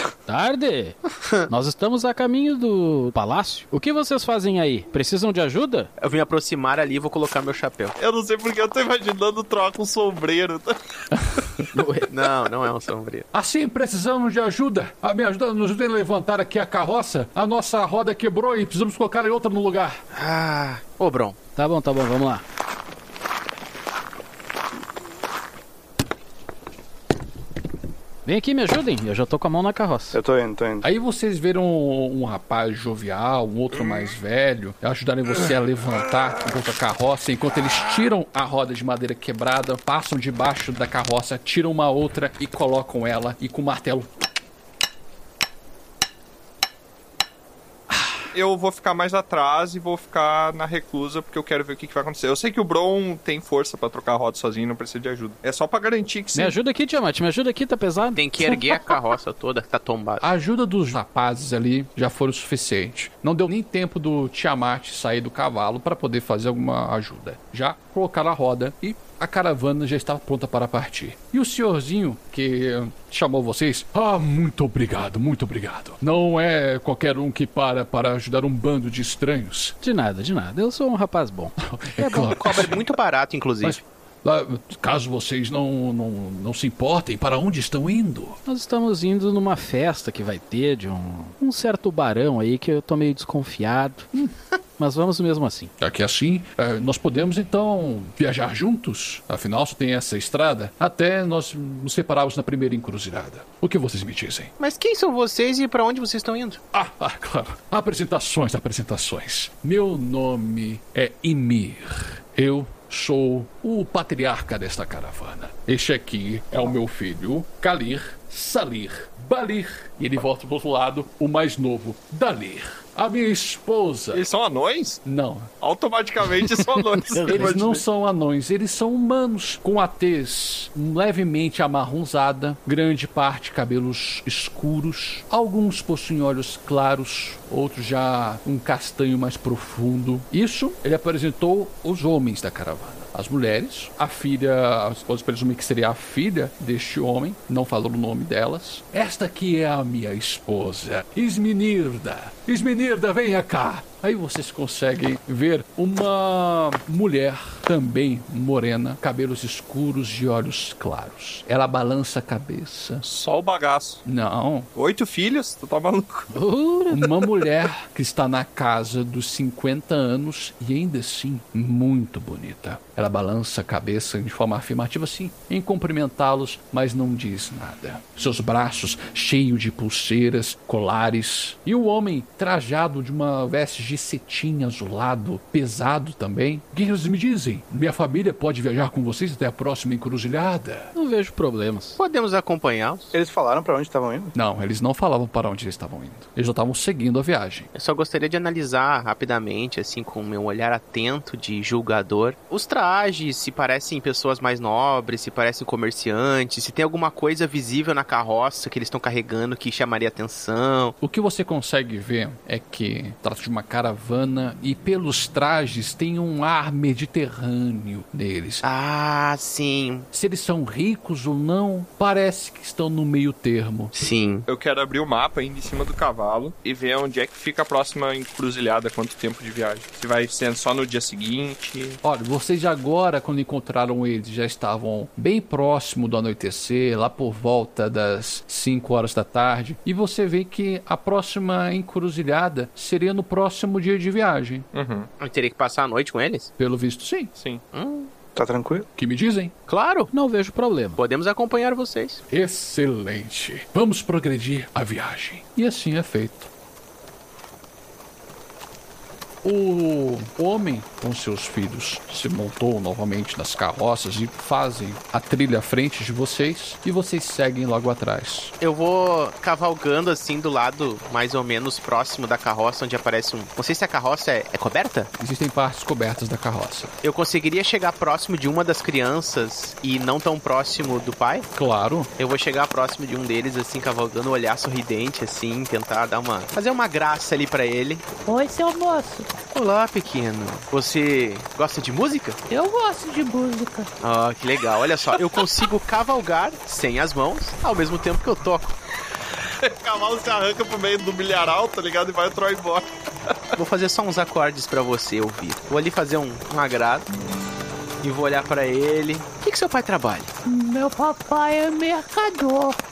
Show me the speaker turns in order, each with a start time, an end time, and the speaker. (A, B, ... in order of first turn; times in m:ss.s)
0:00.3-0:05.9 A
0:06.0-0:08.0 B
0:08.0-0:10.8 C
0:11.7-0:12.1 A
0:12.1-0:13.3 B
0:13.3-0:20.0 D
0:20.1-0:21.4 B
0:21.6-0:22.4 A
0:28.3-0:30.2 A
0:30.1-0:30.9 E
0:30.8-0:44.2 D
0:48.3-0:56.6 C
0:56.4-0:58.9 A
0:58.2-1:00.2 B
1:00.2-1:19.8 D
1:19.8-1:22.3 A
1:21.6-1:22.9 D
1:22.1-1:23.8 B
1:23.6-1:28.4 D
1:28.4-1:34.1 A
1:34.8-1:35.7 A
1:35.8-1:44.5 D
1:44.6-1:46.6 B
1:46.7-2:04.2 D
2:04.1-2:05.0 C
2:05.0-2:05.5 D
2:05.6-2:07.8 C
2:07.2-2:43.0 D
2:43.0-2:44.0 C
2:44.0-2:44.7 D
2:44.8-2:46.3 C
2:46.3-2:47.1 A
2:46.9-3:10.9 D
3:11.0-3:12.0 A
3:12.0-3:13.1 B
3:13.1-3:14.3 E
3:14.4-3:17.7 D
3:17.8-3:31.0 B
3:31.0-3:38.6 D
3:38.6-3:40.1 B
3:40.1-3:43.9 D
3:43.9-3:44.5 B
3:44.5-3:52.0 C
3:52.0-4:04.7 D
4:04.7-4:05.1 C
4:05.2-4:06.5 B
4:06.6-4:07.3 D
4:07.4-4:07.6 C
4:07.7-4:08.1 B
4:08.4-4:08.9 E
4:09.0-4:09.5 D
4:09.7-4:10.1 B
4:10.1-4:11.0 A
4:11.0-4:12.2 B
4:12.3-4:16.5 D
4:19.4-4:28.5 D
4:28.6-4:35.1 B
4:35.2-4:37.0 D
4:37.0-4:41.5 B
4:41.5-4:42.1 D
4:42.2-4:48.0 B
4:48.3-4:49.3 F
4:49.5-4:52.4 B
4:52.5-4:53.9 F
4:54.0-4:58.8 B
4:59.7-5:02.6 C
5:01.9-5:02.8 B
5:03.6-5:07.1 B
5:08.0-5:10.3 B
5:10.4-5:12.8 F